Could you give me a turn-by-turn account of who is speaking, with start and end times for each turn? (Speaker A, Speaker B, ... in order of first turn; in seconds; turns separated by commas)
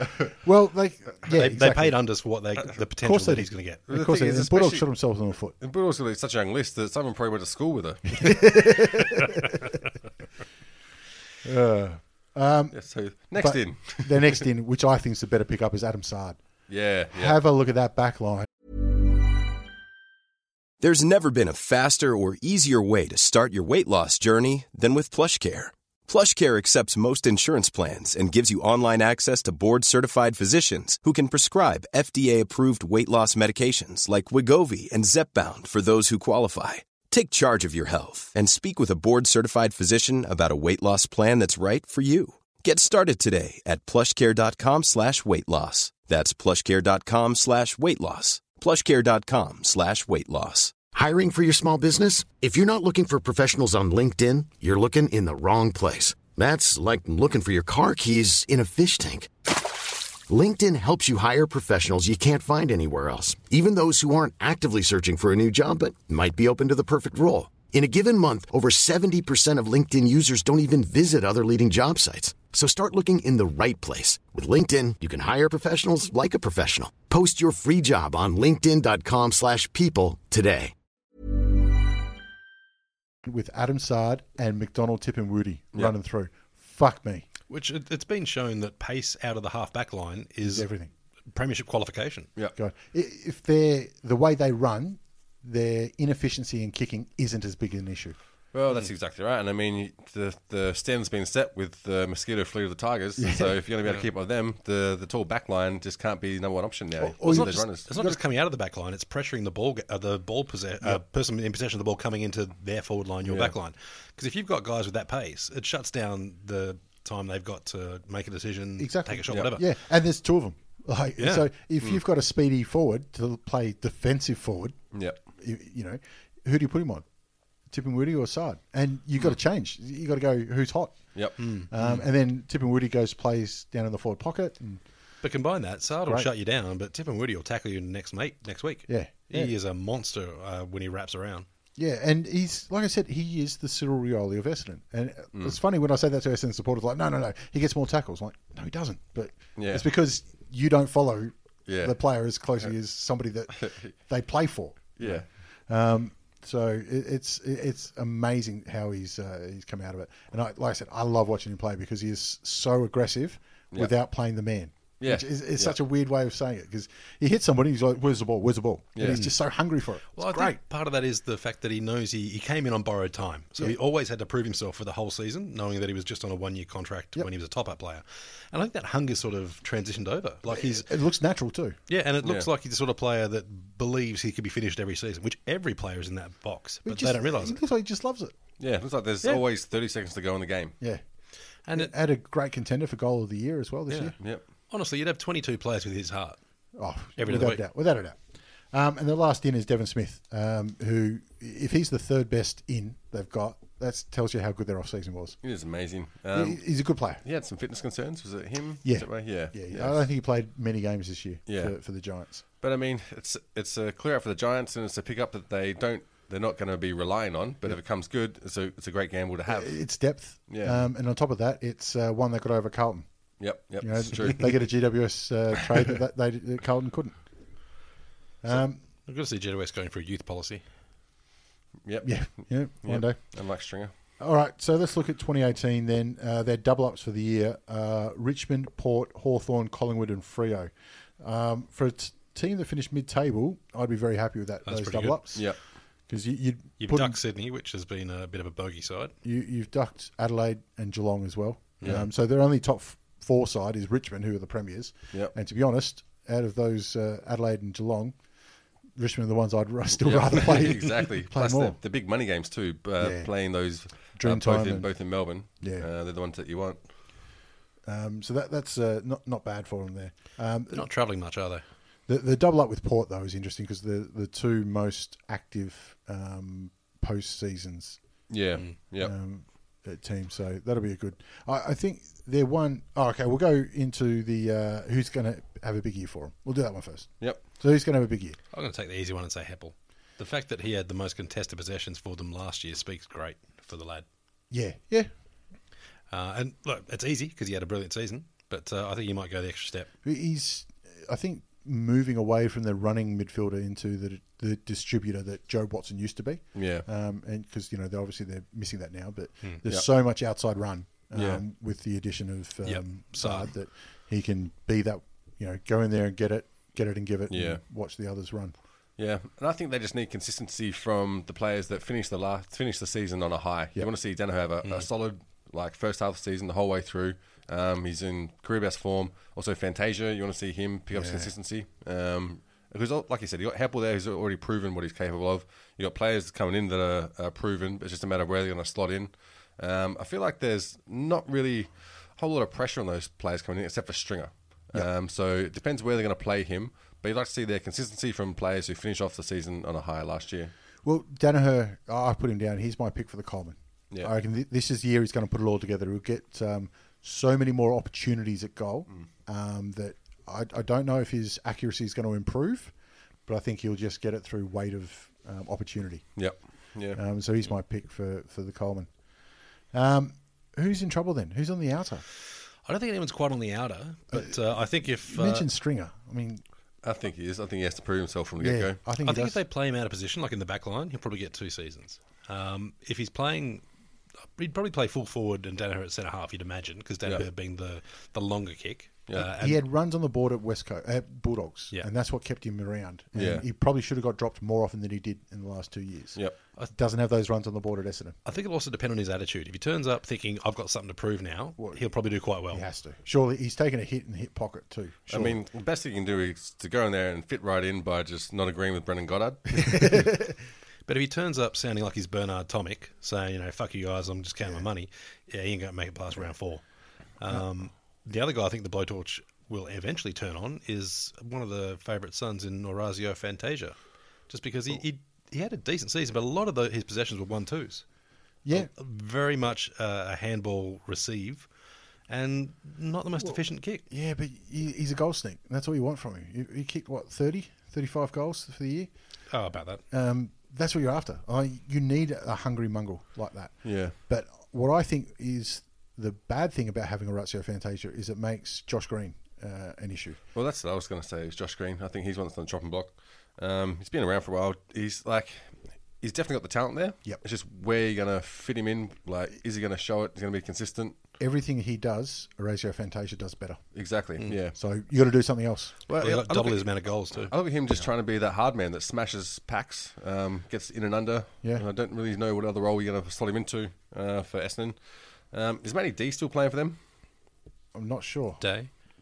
Speaker A: 0.4-2.0, Speaker B: 1.3-3.8, Speaker A: 3.0-5.5, Speaker C: 3.9-8.6, Speaker A: 8.2-9.6, Speaker A: 11.4-12.8, Speaker C: 12.7-14.4, Speaker A: 13.3-16.4, Speaker C: 16.7-17.4, Speaker A: 17.1-18.5, Speaker D: 20.8-50.7, Speaker E: 50.9-59.3, Speaker E: 60.3-80.7, Speaker A: 83.2-87.3, Speaker B: 87.5-90.7, Speaker A: 90.4-90.9, Speaker B: 91.3-92.3, Speaker A: 92.5-98.2, Speaker C: 98.5-107.9, Speaker A: 103.2-103.5, Speaker A: 107.0-108.2, Speaker B: 107.2-119.6, Speaker C: 113.2-113.5, Speaker A: 118.8-124.8, Speaker B: 121.2-121.5, Speaker A: 125.3-127.0, Speaker A: 127.7-134.8, Speaker B: 131.4-132.0, Speaker B: 135.2-141.4, Speaker A: 138.9-139.5, Speaker A: 141.8-170.6, Speaker C: 149.6-149.8, Speaker C: 151.7-152.0, Speaker C: 153.6-153.9, Speaker C: 155.0-155.3, Speaker C: 165.0-165.8, Speaker C: 168.9-169.3, Speaker B: 170.2-180.9, Speaker A: 180.5-181.8, Speaker B: 181.9-187.6, Speaker C: 182.2-182.5, Speaker A: 186.8-188.3, Speaker C: 188.6-190.8, Speaker B: 191.6-191.9, Speaker A: 191.7-194.2, Speaker B: 193.9-194.1, Speaker B: 194.7-196.4, Speaker A: 196.7-205.4, Speaker B: 197.2-197.6, Speaker C: 205.4-206.6, Speaker A: 206.3-207.2, Speaker C: 207.2-210.0, Speaker A: 208.8-212.4, Speaker C: 211.5-211.7, Speaker C: 212.6-220.8, Speaker A: 219.5-223.1, Speaker C: 223.4-224.7, Speaker A: 223.8-227.1, Speaker A: 228.4-228.8, Speaker B: 229.1-230.6, Speaker C: 231.8-233.9, Speaker A: 232.0-233.2, Speaker A: 234.2-245.5, Speaker B: 244.7-245.2, Speaker A: 246.1-247.2, Speaker B: 246.8-249.1, Speaker A: 249.2-258.2, Speaker B: 251.8-252.1, Speaker A: 258.9-261.8, Speaker C: 260.0-266.8, Speaker A: 263.0-263.3, Speaker A: 264.1-264.9, Speaker A: 265.6-265.9, Speaker A: 267.9-270.9, Speaker B: 270.7-271.6, Speaker A: 272.1-278.0, Speaker C: 278.3-279.1, Speaker A: 279.0-288.4, Speaker B: 288.5-294.1, Speaker A: 294.5-295.1, Speaker B: 296.1-299.9, Speaker A: 300.0-318.5, Speaker C: 306.5-306.9, Speaker C: 311.1-311.4, Speaker B: 312.6-313.5, Speaker C: 317.3-317.6, Speaker C: 319.0-350.5, Speaker A: 330.9-331.3, Speaker A: 350.8-362.7, Speaker A: 363.3-366.2, Speaker C: 366.1-367.0, Speaker A: 366.9-368.9, Speaker A: 369.7-372.0, Speaker B: 372.6-375.5, Speaker A: 375.0-376.4, Speaker C: 376.8-378.8, Speaker A: 378.4-379.4, Speaker B: 379.0-383.6, Speaker B: 384.4-389.6, Speaker A: 389.2-398.1, Speaker C: 393.1-393.4, Speaker B: 398.2-402.6, Speaker A: 401.6-401.8, Speaker A: 402.5-405.4, Speaker C: 405.1-410.0, Speaker A: 409.6-410.1, Speaker B: 410.9-416.6, Speaker B: 417.2-423.8, Speaker B: 424.3-427.9, Speaker A: 428.4-428.7, Speaker B: 428.5-431.5, Speaker B: 432.1-433.8, Speaker A: 433.2-438.9, Speaker B: 439.3-439.8, Speaker A: 439.9-450.2, Speaker C: 443.6-443.9, Speaker C: 450.3-461.0, Speaker A: 461.2-463.6, Speaker C: 463.7-464.6, Speaker A: 464.5-465.7, Speaker C: 465.9-476.8, Speaker B: 466.0-467.3, Speaker A: 477.7-478.4, Speaker B: 478.4-478.7